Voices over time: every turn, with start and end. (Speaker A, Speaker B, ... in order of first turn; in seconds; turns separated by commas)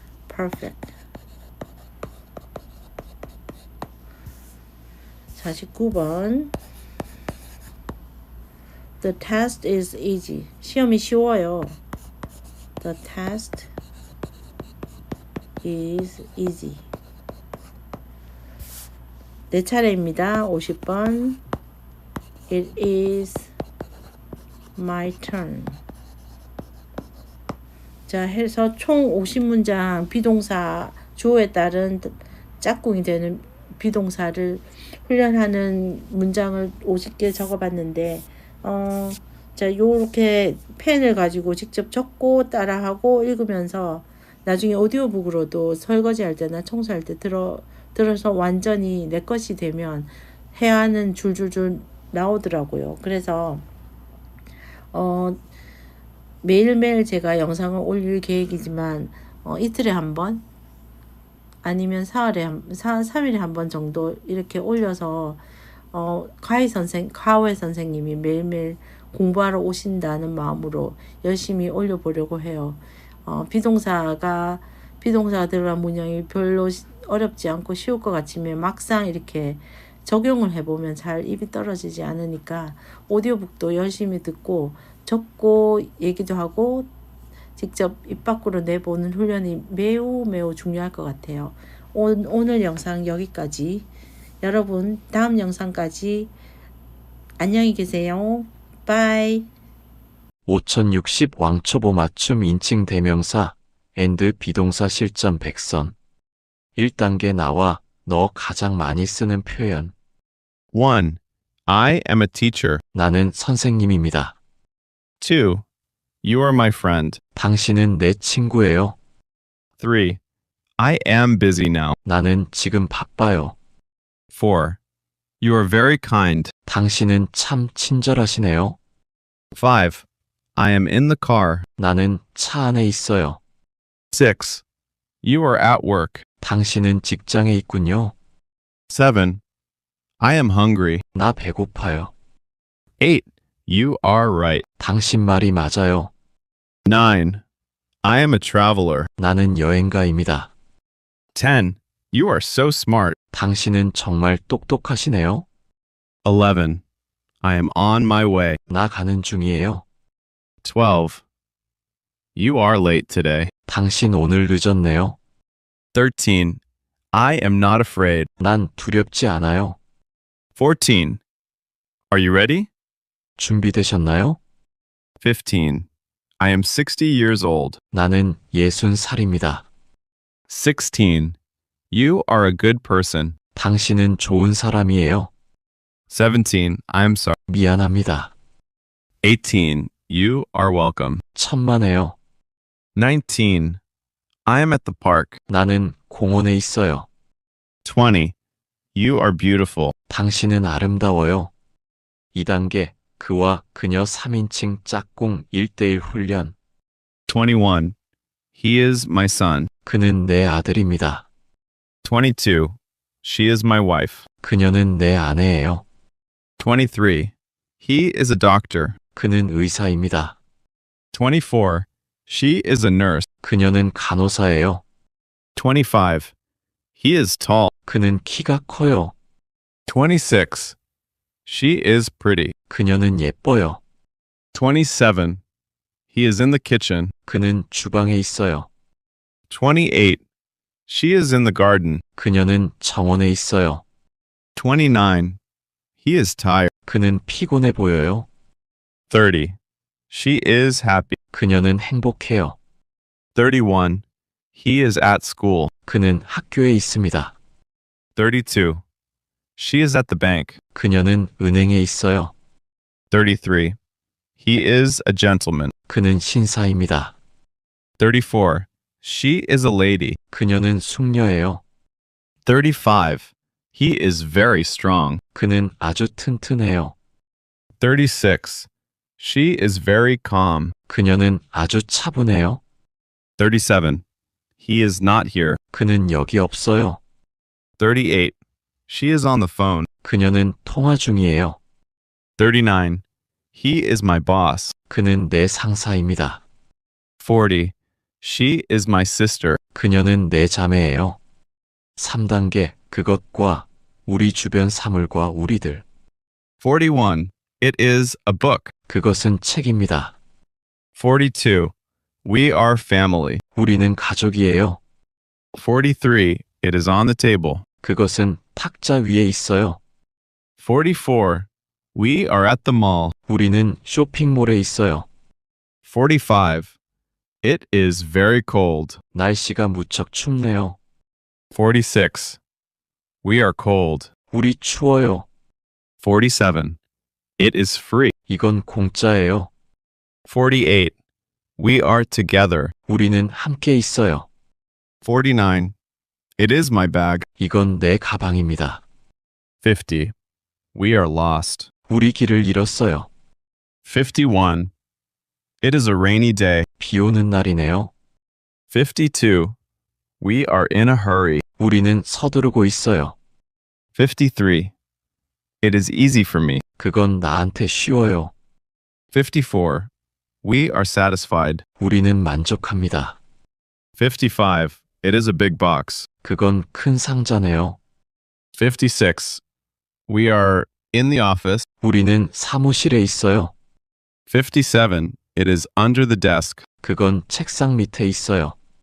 Speaker A: 0.3-0.9, Speaker A: 5.3-6.5, Speaker A: 9.0-11.8, Speaker A: 12.8-13.7, Speaker A: 15.6-16.8, Speaker A: 19.5-21.4, Speaker A: 22.5-23.5, Speaker A: 24.8-25.8, Speaker A: 28.1-53.6, Speaker A: 54.9-55.4, Speaker A: 56.4-60.4, Speaker A: 61.6-86.9, Speaker A: 87.5-93.9, Speaker A: 94.4-96.3, Speaker A: 97.4-99.5, Speaker B: 100.5-105.9, Speaker B: 106.8-109.9, Speaker C: 110.7-112.8, Speaker B: 112.9-114.3, Speaker C: 115.2-115.6, Speaker C: 116.2-117.2, Speaker B: 117.3-119.0, Speaker C: 119.8-120.2, Speaker C: 120.8-122.0, Speaker B: 122.0-123.5, Speaker C: 124.3-124.8, Speaker C: 125.4-126.5, Speaker B: 126.7-128.8, Speaker C: 129.5-130.0, Speaker C: 130.5-131.7, Speaker B: 131.8-133.4, Speaker C: 134.1-134.6, Speaker C: 135.2-136.2, Speaker B: 136.4-138.1, Speaker C: 138.9-139.4, Speaker C: 140.2-141.0, Speaker B: 141.1-142.1, Speaker C: 143.0-144.6, Speaker B: 144.8-146.1, Speaker C: 146.8-147.4, Speaker C: 148.0-149.1, Speaker B: 149.2-150.5, Speaker C: 151.3-153.2, Speaker B: 153.3-155.5, Speaker C: 156.2-156.8, Speaker C: 157.4-158.6, Speaker B: 158.7-159.8, Speaker C: 160.6-161.2, Speaker C: 162.3-163.5, Speaker B: 163.7-165.2, Speaker C: 165.9-166.6, Speaker C: 167.1-168.3, Speaker B: 168.4-169.8, Speaker C: 170.6-171.2, Speaker C: 172.1-172.7, Speaker B: 173.4-174.4, Speaker C: 175.2-175.9, Speaker C: 176.4-177.8, Speaker B: 177.9-179.7, Speaker C: 180.5-181.3, Speaker C: 181.9-183.3, Speaker B: 183.5-185.3, Speaker C: 186.1-187.4, Speaker B: 187.5-188.3, Speaker C: 189.2-191.2, Speaker B: 191.3-192.2, Speaker C: 193.0-193.8, Speaker C: 194.5-195.4, Speaker B: 195.5-197.1, Speaker C: 197.8-198.3, Speaker C: 198.9-199.9, Speaker B: 200.1-201.5, Speaker B: 202.3-206.5, Speaker C: 207.3-207.9, Speaker C: 208.5-209.7, Speaker B: 209.8-211.2, Speaker C: 212.0-214.2, Speaker B: 214.4-215.8, Speaker C: 216.6-219.0, Speaker B: 219.1-220.3, Speaker C: 221.1-223.2, Speaker B: 223.4-224.8, Speaker C: 225.6-226.3, Speaker C: 227.0-227.7, Speaker B: 227.8-229.1, Speaker C: 229.9-230.8, Speaker C: 231.5-232.5, Speaker B: 232.7-233.8, Speaker C: 234.5-235.4, Speaker C: 236.1-237.1, Speaker B: 237.2-238.7, Speaker C: 239.5-240.2, Speaker C: 240.9-242.0, Speaker B: 242.2-243.8, Speaker C: 244.6-245.4, Speaker C: 246.0-246.7, Speaker B: 246.8-248.3, Speaker C: 249.1-249.6, Speaker C: 250.1-251.1, Speaker B: 251.3-252.6, Speaker C: 253.3-254.0, Speaker C: 254.5-255.7, Speaker B: 255.9-257.3, Speaker C: 258.1-258.8, Speaker C: 259.6-260.6, Speaker B: 260.8-262.3, Speaker C: 263.1-263.8, Speaker C: 264.4-265.7, Speaker B: 265.9-267.1, Speaker C: 268.0-270.2, Speaker B: 270.3-271.6, Speaker C: 272.4-275.2, Speaker B: 275.3-276.9, Speaker C: 277.8-278.7, Speaker C: 279.2-280.7, Speaker B: 280.9-282.6, Speaker C: 283.4-284.0, Speaker C: 284.6-285.6, Speaker B: 285.7-287.0, Speaker C: 287.8-288.4, Speaker C: 288.9-289.9, Speaker B: 290.0-291.6, Speaker C: 292.4-293.0, Speaker C: 293.5-294.8, Speaker B: 294.9-296.4, Speaker C: 297.2-299.6, Speaker B: 299.7-301.2, Speaker B: 302.0-305.8, Speaker C: 306.6-308.7, Speaker B: 308.9-310.1, Speaker C: 311.0-311.7, Speaker C: 312.2-313.4, Speaker B: 313.5-314.8, Speaker C: 315.5-317.6, Speaker B: 317.8-319.8, Speaker C: 320.6-323.1, Speaker B: 323.3-325.1, Speaker C: 325.8-326.7, Speaker C: 327.4-329.0, Speaker B: 329.1-330.8, Speaker C: 331.5-332.4, Speaker C: 333.2-334.1, Speaker B: 334.3-335.3, Speaker C: 336.0-336.8, Speaker C: 337.4-338.1, Speaker B: 338.3-339.5, Speaker C: 340.2-340.9, Speaker C: 341.6-342.7, Speaker B: 342.9-344.3, Speaker C: 345.0-345.7, Speaker C: 346.4-347.2, Speaker B: 347.4-348.8, Speaker C: 349.6-350.1, Speaker C: 350.7-351.7, Speaker B: 351.9-353.1, Speaker C: 353.8-354.7, Speaker C: 355.6-356.7, Speaker B: 356.8-357.9, Speaker C: 358.7-359.6, Speaker C: 360.2-361.4, Speaker B: 361.6-363.1, Speaker C: 363.9-364.7, Speaker C: 365.6-366.6, Speaker B: 366.8-368.3, Speaker C: 369.1-369.9, Speaker C: 370.4-371.6, Speaker B: 371.8-373.2, Speaker C: 374.0-376.1, Speaker B: 376.2-377.8, Speaker C: 378.5-379.4, Speaker C: 380.1-381.6, Speaker B: 381.8-383.5, Speaker C: 384.3-386.6, Speaker B: 386.8-388.6